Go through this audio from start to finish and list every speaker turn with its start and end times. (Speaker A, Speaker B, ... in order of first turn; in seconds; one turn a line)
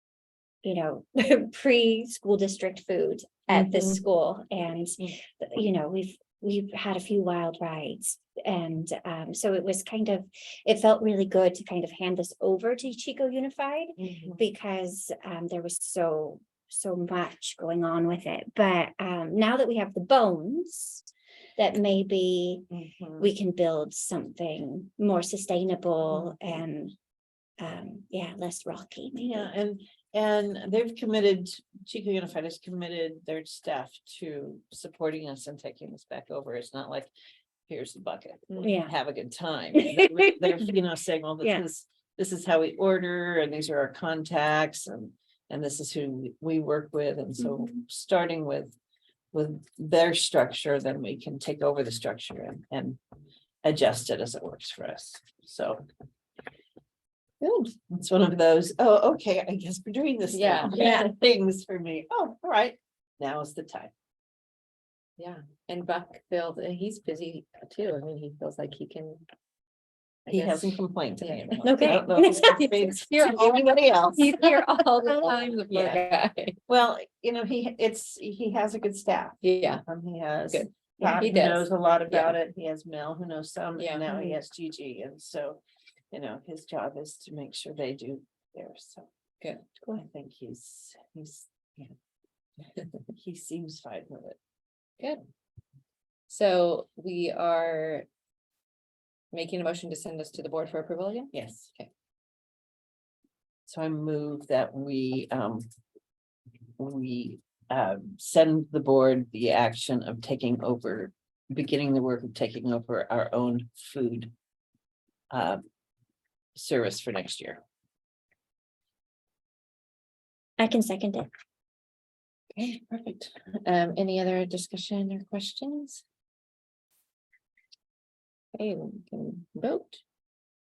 Speaker A: 0.6-21.1
Speaker B: 3.5-4.0
Speaker B: 14.0-14.4
Speaker A: 21.6-22.7
Speaker B: 22.7-23.3
Speaker A: 23.2-26.9
Speaker A: 27.6-29.5
Speaker B: 29.1-37.1
Speaker B: 37.7-48.8
Speaker A: 38.6-38.9
Speaker A: 39.8-40.3
Speaker A: 47.4-47.7
Speaker B: 49.3-53.0
Speaker B: 53.6-55.8
Speaker B: 57.5-63.9
Speaker C: 60.3-60.9
Speaker A: 60.7-61.0
Speaker C: 65.2-69.2
Speaker B: 70.3-74.4
Speaker C: 70.3-71.9
Speaker A: 71.6-73.3
Speaker C: 73.2-73.6
Speaker C: 74.2-76.6
Speaker A: 74.2-75.5
Speaker B: 75.7-76.0
Speaker B: 76.7-85.6
Speaker C: 79.4-79.8
Speaker C: 80.5-82.3
Speaker A: 81.0-81.2
Speaker C: 83.8-84.0
Speaker A: 84.1-84.4
Speaker B: 86.1-89.1
Speaker B: 90.0-91.9
Speaker B: 93.1-94.4
Speaker C: 96.3-98.1
Speaker C: 99.3-101.9
Speaker B: 101.3-101.7
Speaker B: 103.7-105.7
Speaker B: 106.8-114.3
Speaker B: 115.3-115.6
Speaker B: 116.5-117.6
Speaker A: 120.6-121.3
Speaker C: 122.5-126.0
Speaker C: 128.5-130.0